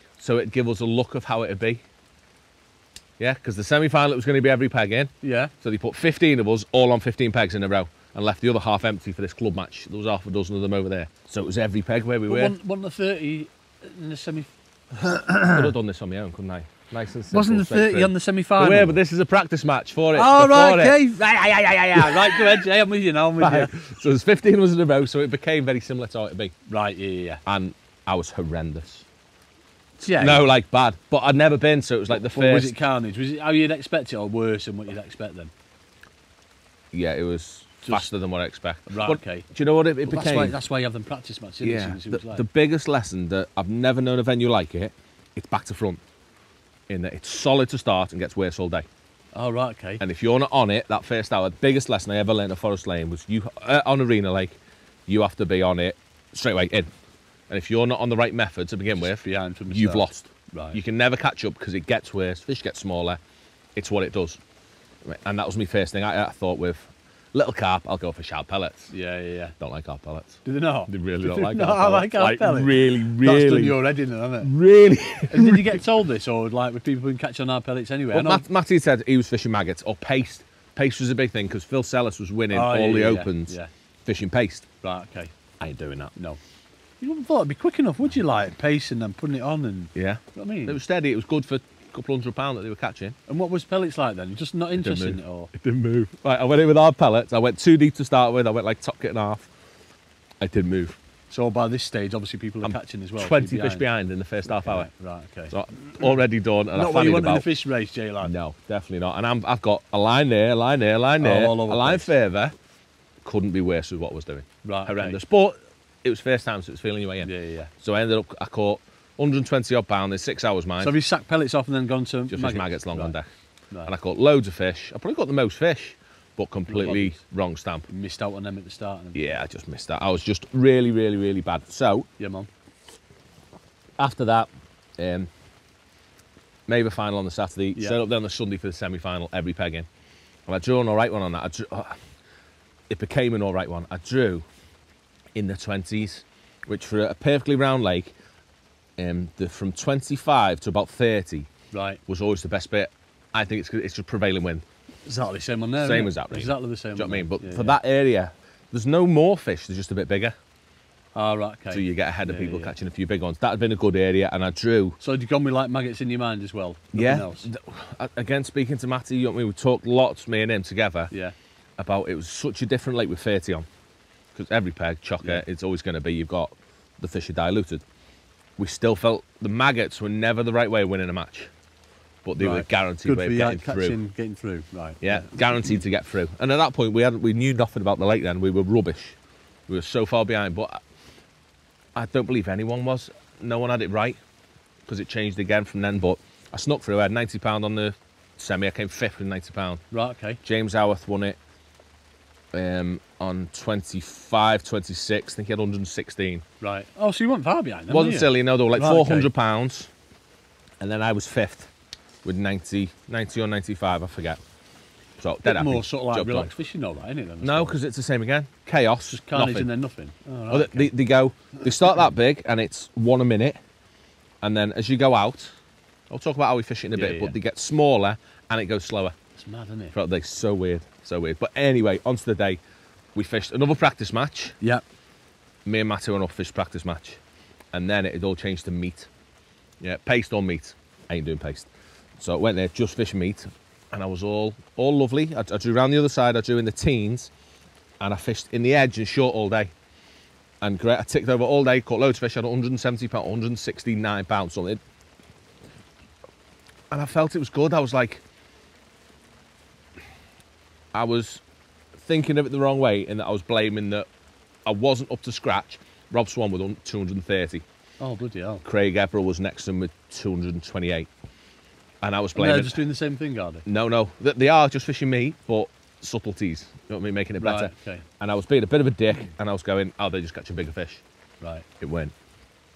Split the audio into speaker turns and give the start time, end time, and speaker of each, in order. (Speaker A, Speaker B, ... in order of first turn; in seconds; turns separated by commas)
Speaker A: 0.2-1.8, Speaker A: 3.2-12.5, Speaker B: 5.2-5.5, Speaker B: 12.3-15.7, Speaker A: 15.5-22.6, Speaker B: 17.3-19.0, Speaker B: 20.1-23.7, Speaker A: 23.4-26.5, Speaker B: 26.7-27.4, Speaker A: 27.4-29.0, Speaker B: 30.0-30.4, Speaker A: 30.2-32.7, Speaker B: 32.1-35.5, Speaker A: 36.9-40.5, Speaker B: 38.9-39.5, Speaker B: 40.0-42.5, Speaker A: 41.6-46.0, Speaker A: 46.9-48.9, Speaker B: 49.3-50.0, Speaker A: 50.0-56.9, Speaker A: 57.5-63.2, Speaker B: 59.0-60.8, Speaker A: 63.8-64.4, Speaker A: 65.0-68.9, Speaker B: 68.9-69.5, Speaker A: 69.6-73.8, Speaker B: 70.4-74.5, Speaker A: 74.4-75.8, Speaker B: 75.3-78.4, Speaker A: 78.1-84.7, Speaker B: 82.5-83.7, Speaker B: 84.8-85.3, Speaker A: 85.6-86.1, Speaker B: 86.1-86.4, Speaker B: 87.0-90.8, Speaker A: 89.9-93.2, Speaker B: 93.3-95.5, Speaker A: 94.8-99.5, Speaker A: 100.4-101.0, Speaker B: 101.3-103.8, Speaker A: 102.6-104.9, Speaker B: 104.5-106.1, Speaker A: 105.5-107.5, Speaker B: 106.7-108.3, Speaker A: 108.2-112.5, Speaker B: 111.2-112.1, Speaker A: 113.2-117.3, Speaker B: 114.6-115.2, Speaker B: 117.2-117.7, Speaker A: 117.8-120.9, Speaker B: 120.8-123.2, Speaker A: 122.3-123.3, Speaker A: 123.8-127.9, Speaker B: 126.7-127.2, Speaker B: 127.9-129.4, Speaker A: 129.1-132.1, Speaker B: 132.2-132.5, Speaker A: 134.0-135.3, Speaker A: 136.7-139.9, Speaker A: 140.5-142.0, Speaker A: 142.9-144.4, Speaker A: 145.3-148.1, Speaker A: 149.0-151.5, Speaker B: 151.7-152.0, Speaker A: 152.1-154.6, Speaker B: 155.1-157.8, Speaker A: 155.8-160.3, Speaker B: 161.1-162.7, Speaker A: 161.7-165.0, Speaker B: 165.0-167.5, Speaker A: 166.9-171.1, Speaker A: 171.8-173.7, Speaker A: 174.3-177.8, Speaker A: 178.6-181.5, Speaker A: 182.2-184.0, Speaker B: 182.4-185.8, Speaker A: 185.0-189.2, Speaker A: 189.7-190.8, Speaker A: 191.9-194.2, Speaker A: 194.9-199.8, Speaker B: 199.9-200.4, Speaker A: 200.4-201.4, Speaker A: 202.5-206.4, Speaker B: 206.6-209.3, Speaker A: 207.9-209.9, Speaker A: 210.8-211.7, Speaker A: 212.2-214.4, Speaker A: 215.2-216.5, Speaker B: 215.4-217.8, Speaker A: 217.4-219.7, Speaker B: 219.1-220.9, Speaker A: 220.5-223.6, Speaker A: 224.4-225.5, Speaker A: 226.1-229.2, Speaker B: 226.9-227.3, Speaker B: 229.3-229.9, Speaker A: 229.9-232.6, Speaker A: 233.1-234.6, Speaker A: 235.6-237.2, Speaker A: 237.7-239.1, Speaker A: 239.8-241.7, Speaker A: 242.2-247.3, Speaker A: 248.0-249.7, Speaker A: 250.6-254.8, Speaker A: 256.9-258.2, Speaker A: 260.9-261.4, Speaker A: 262.0-264.1, Speaker A: 264.6-267.6, Speaker B: 268.0-268.6, Speaker A: 268.6-271.1, Speaker A: 272.0-272.8, Speaker B: 272.3-273.6, Speaker A: 273.6-281.0, Speaker B: 277.4-278.0, Speaker B: 281.4-281.6, Speaker A: 281.8-282.1